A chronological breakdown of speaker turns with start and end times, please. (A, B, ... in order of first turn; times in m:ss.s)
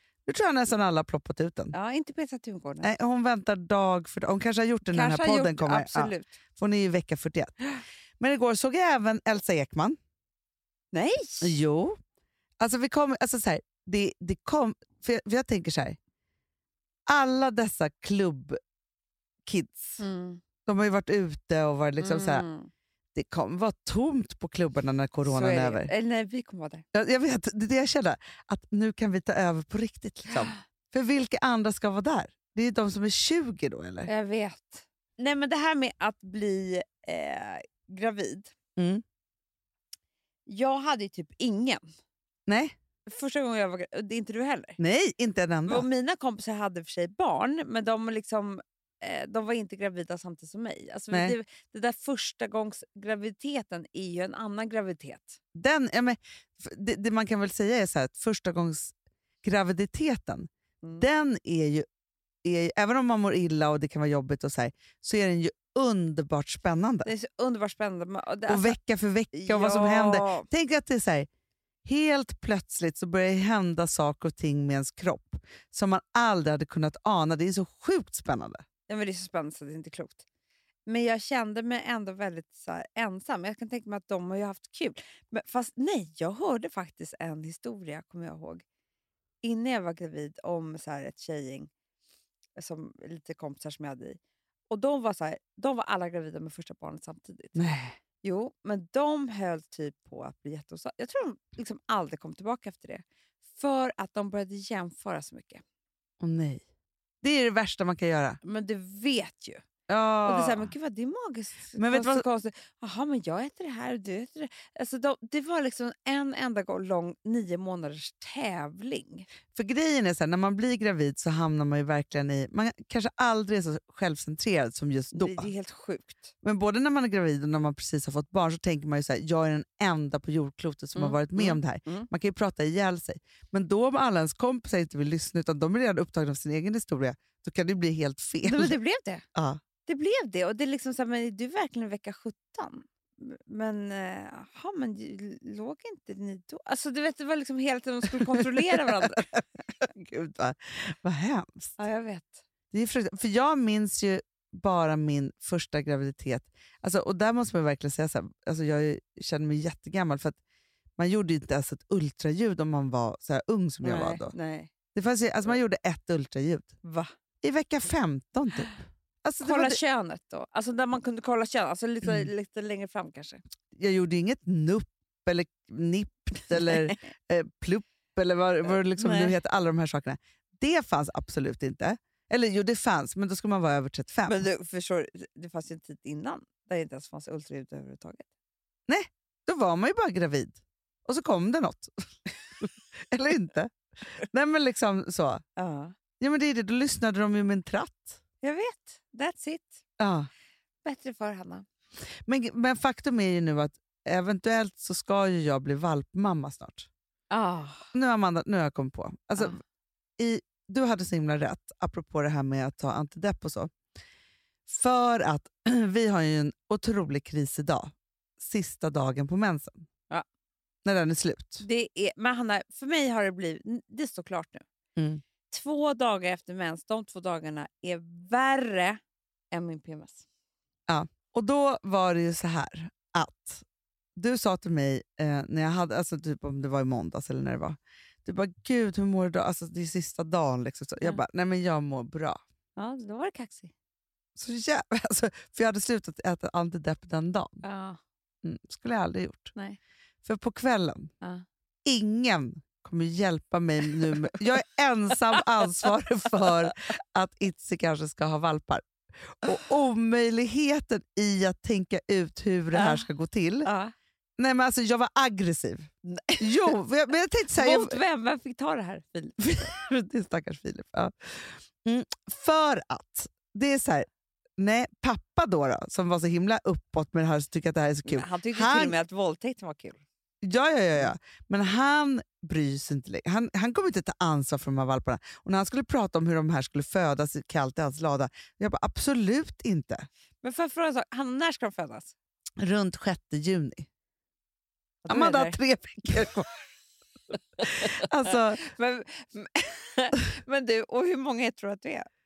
0:00.3-0:01.8 A
0:01.7-0:02.9 B
0:02.8-0:07.7 A
0:04.9-0:06.4 B
0:08.2-0:10.0 A
0:10.9-0:11.6 B
0:11.4-0:12.0 A
0:12.6-0:16.0 A
0:17.1-0:18.6 A
0:19.5-0:20.0 A
0:20.0-0:20.4 B
0:20.7-0:22.5 A
0:22.0-0:22.7 B
0:23.1-0:25.9 A
0:25.2-0:26.8 B
0:26.9-0:34.1 A
0:30.3-0:30.6 B
0:34.1-0:38.5 B
0:38.8-0:39.0 A
0:40.5-0:41.8 B
0:42.5-0:42.8 A
0:43.1-0:44.8 B
0:44.8-0:45.9 A
0:45.7-0:55.4 B
0:51.1-0:51.4 A
0:55.6-1:01.9 A
1:02.4-1:07.1 A
1:07.0-1:08.8 B
1:08.5-1:11.3 A
1:09.3-1:10.5 B
1:11.8-1:18.6 A
1:18.9-1:20.2 B
1:20.9-1:28.6 B
1:29.4-1:31.7 B
1:32.6-1:34.2 B
1:34.7-1:45.6 B
1:37.6-1:38.0 A
1:46.2-1:46.6 A
1:47.2-1:48.4 A
1:48.4-1:49.6 B
1:49.9-1:50.7 A
1:50.2-1:59.3 B
1:51.8-1:52.2 A
1:59.5-2:05.5 A
2:05.1-2:06.3 B
2:06.4-2:18.8 A
2:11.0-2:12.1 B
2:18.4-2:19.2 B
2:19.4-2:19.6 A
2:19.9-2:29.3 B
2:28.1-2:31.8 A
2:31.8-2:32.4 B
2:32.7-2:40.4 A
2:41.0-2:44.3 A
2:43.8-2:44.7 B
2:44.9-2:46.7 A
2:46.8-2:47.1 B
2:47.4-2:49.8 A
2:49.4-2:53.4 B
2:52.0-2:52.3 A
2:53.8-3:04.5 A
2:56.6-2:56.9 B
2:58.7-2:59.4 B
3:04.3-3:08.3 B
3:08.9-3:12.0 A
3:12.6-3:15.4 A
3:15.6-3:16.0 B
3:16.2-3:18.2 A
3:18.4-3:19.8 B
3:20.0-3:20.3 A
3:20.8-3:21.6 B
3:22.3-3:26.9 A
3:27.3-3:27.9 B
3:27.9-3:29.6 A
3:30.2-3:33.7 A
3:34.7-3:39.9 A
3:40.8-3:41.6 A
3:41.6-3:44.6 B
3:45.0-3:45.2 A
3:45.5-3:49.0 B
3:49.5-3:50.2 B
3:50.9-3:53.6 A
3:54.2-4:02.4 A
4:02.8-4:03.7 B
4:04.4-4:07.6 A
4:07.6-4:08.0 B
4:08.4-4:09.5 A
4:09.5-4:09.8 B
4:10.2-4:11.1 A
4:11.8-4:23.7 A
4:22.7-4:23.1 B
4:23.6-4:23.9 B
4:24.4-4:28.0 A
4:26.1-4:26.7 B
4:27.5-4:29.4 B
4:29.4-4:34.1 A
4:34.6-4:39.0 A
4:38.1-4:40.0 B
4:40.4-4:50.1 A
4:50.4-4:52.1 B
4:52.6-4:53.9 A
4:55.0-4:55.6 B
4:55.1-4:56.5 A
4:57.6-4:58.6 A
4:58.6-5:02.1 B